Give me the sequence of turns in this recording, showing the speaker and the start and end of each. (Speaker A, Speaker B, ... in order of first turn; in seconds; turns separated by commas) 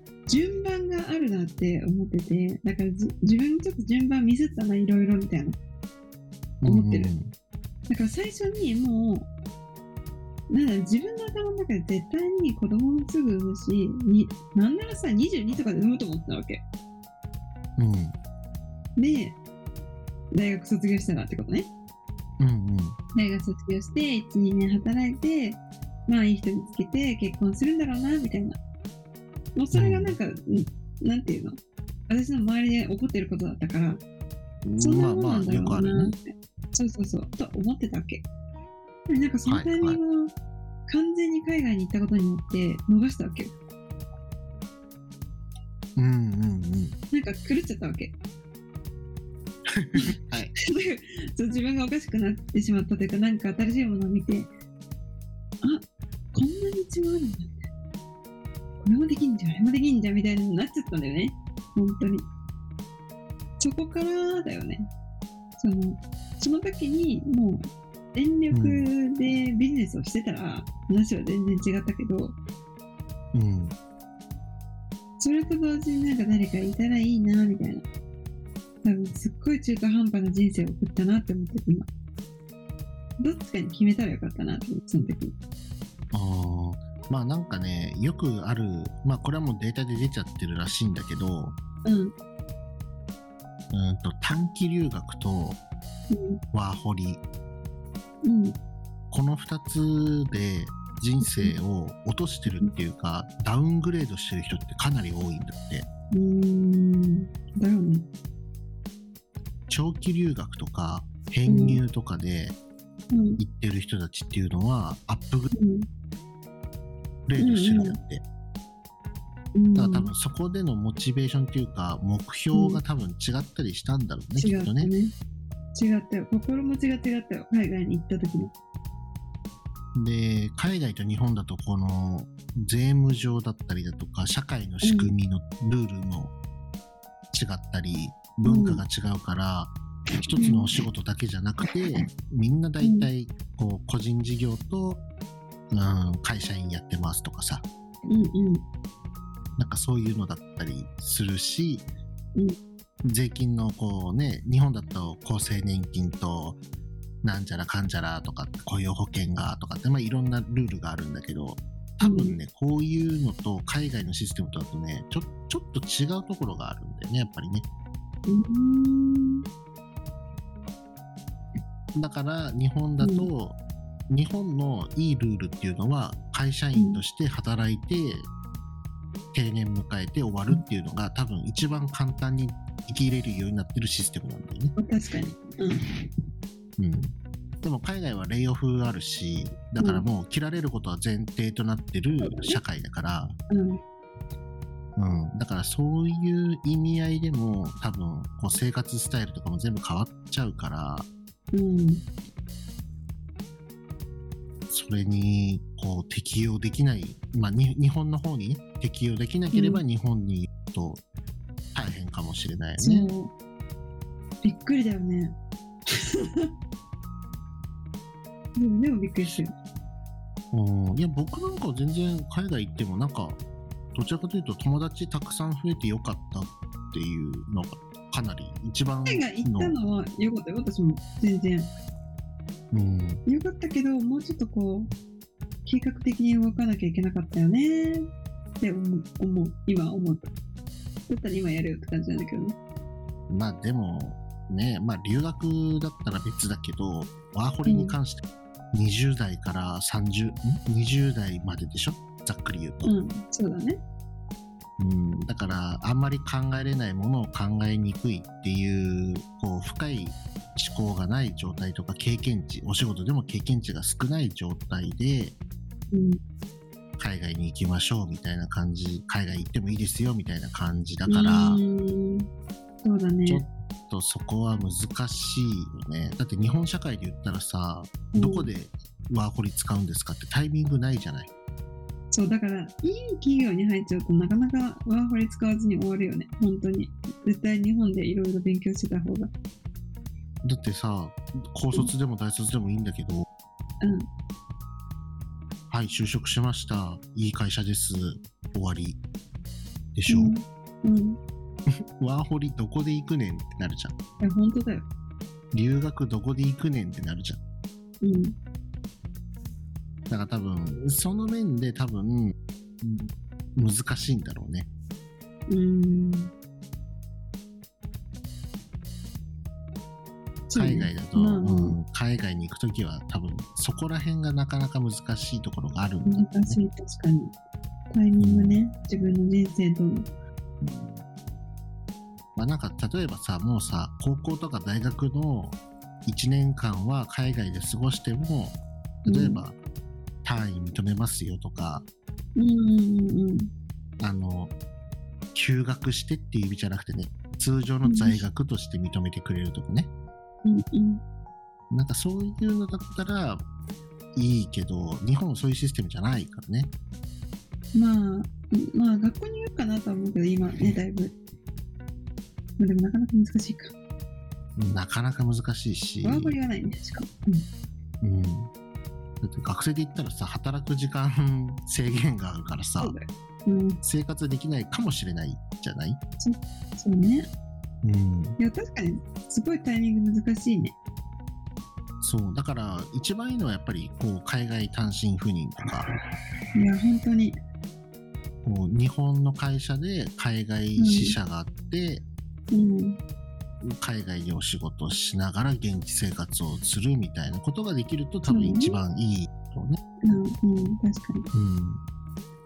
Speaker A: 0.3-5.6, Speaker B: 6.6-7.3, Speaker A: 6.6-7.1, Speaker A: 7.9-9.3, Speaker A: 10.5-16.6, Speaker B: 17.8-18.1, Speaker A: 19.0-19.4, Speaker A: 20.3-21.7, Speaker B: 22.4-23.0, Speaker A: 23.1-28.6, Speaker A: 29.6-31.6, Speaker B: 29.7-30.2, Speaker A: 32.1-34.0, Speaker B: 34.6-36.1, Speaker A: 34.8-38.2, Speaker A: 39.1-40.3, Speaker B: 39.5-40.0, Speaker A: 40.9-43.5, Speaker B: 46.0-47.0, Speaker A: 47.1-48.1, Speaker B: 49.7-50.5, Speaker A: 50.6-54.5, Speaker A: 56.3-57.6, Speaker A: 58.8-62.3, Speaker A: 63.6-64.9, Speaker A: 65.6-72.4, Speaker B: 68.5-68.9, Speaker B: 73.3-73.7, Speaker A: 75.2-77.8, Speaker A: 78.8-81.9, Speaker A: 83.2-85.3, Speaker B: 86.1-91.5, Speaker A: 91.8-92.1, Speaker B: 93.7-95.6, Speaker A: 96.1-96.4, Speaker B: 96.5-97.2, Speaker A: 98.2-98.6, Speaker B: 99.1-105.9, Speaker A: 101.2-101.5, Speaker A: 106.1-108.1, Speaker B: 109.7-112.5, Speaker A: 111.5-111.8, Speaker A: 113.1-113.4, Speaker B: 113.4-115.5, Speaker A: 115.5-115.9, Speaker B: 117.3-118.2, Speaker A: 117.4-118.0, Speaker A: 119.5-120.1, Speaker B: 119.7-124.9, Speaker A: 122.5-122.8, Speaker A: 124.4-125.1, Speaker A: 125.7-128.5, Speaker B: 129.9-136.3, Speaker A: 134.8-135.1, Speaker B: 137.3-145.0, Speaker A: 138.4-138.8, Speaker A: 140.3-140.7, Speaker A: 142.8-143.1, Speaker B: 145.7-147.6, Speaker A: 148.1-148.6, Speaker B: 149.6-151.8, Speaker B: 153.0-156.6, Speaker B: 157.2-167.6, Speaker A: 162.0-162.4, Speaker A: 168.3-169.4, Speaker B: 171.9-173.6, Speaker A: 173.0-173.3, Speaker B: 174.1-178.3, Speaker A: 176.7-177.0, Speaker B: 179.3-184.7, Speaker A: 184.8-185.8, Speaker B: 186.8-193.3, Speaker A: 192.2-192.6, Speaker A: 193.5-193.8, Speaker B: 194.9-201.1, Speaker A: 201.5-202.1, Speaker B: 204.7-211.0, Speaker A: 209.5-209.8, Speaker B: 211.7-213.1, Speaker A: 212.8-213.3, Speaker A: 214.4-215.3, Speaker A: 215.9-216.5, Speaker A: 218.6-219.5, Speaker B: 220.5-223.4, Speaker B: 223.9-229.8, Speaker A: 229.1-231.7, Speaker B: 232.7-233.2, Speaker A: 233.2-234.9, Speaker A: 235.6-238.1, Speaker A: 238.6-240.3, Speaker A: 241.1-242.6, Speaker B: 243.3-252.9, Speaker A: 247.7-247.9, Speaker A: 252.8-253.8, Speaker B: 254.8-265.3, Speaker A: 265.9-266.2, Speaker B: 267.0-271.6, Speaker A: 271.1-272.3, Speaker A: 272.8-273.4, Speaker B: 273.2-281.3, Speaker A: 278.1-278.5, Speaker A: 282.1-289.3, Speaker B: 290.4-293.2, Speaker A: 293.8-294.1, Speaker B: 295.7-299.0, Speaker B: 299.9-300.3, Speaker A: 300.1-301.2, Speaker B: 301.8-303.9, Speaker A: 304.2-304.9, Speaker B: 305.5-307.4, Speaker A: 308.0-308.3, Speaker B: 310.1-314.7, Speaker A: 315.5-316.3, Speaker A: 320.5-321.8, Speaker B: 320.5-326.6, Speaker A: 326.0-327.3, Speaker A: 327.9-330.1, Speaker B: 328.2-328.6, Speaker B: 330.6-331.0, Speaker B: 332.4-339.6, Speaker A: 339.0-339.4, Speaker B: 340.2-341.8, Speaker A: 342.4-343.5, Speaker B: 344.0-344.5, Speaker B: 345.3-349.9, Speaker A: 347.8-348.2, Speaker A: 350.4-351.0, Speaker B: 351.7-353.4, Speaker B: 354.1-356.7, Speaker A: 357.7-361.1, Speaker A: 362.6-363.7, Speaker B: 364.6-366.4, Speaker A: 366.0-367.5, Speaker B: 368.0-368.5, Speaker B: 369.2-372.9, Speaker A: 372.8-373.8, Speaker B: 373.8-376.0, Speaker A: 376.2-377.3, Speaker B: 377.8-378.4, Speaker A: 378.4-380.7, Speaker B: 382.0-385.9, Speaker A: 386.6-387.4, Speaker B: 388.4-392.0, Speaker A: 390.8-391.1, Speaker A: 392.5-393.0, Speaker B: 393.6-399.8, Speaker A: 398.3-398.8, Speaker A: 400.0-401.3, Speaker B: 401.3-401.8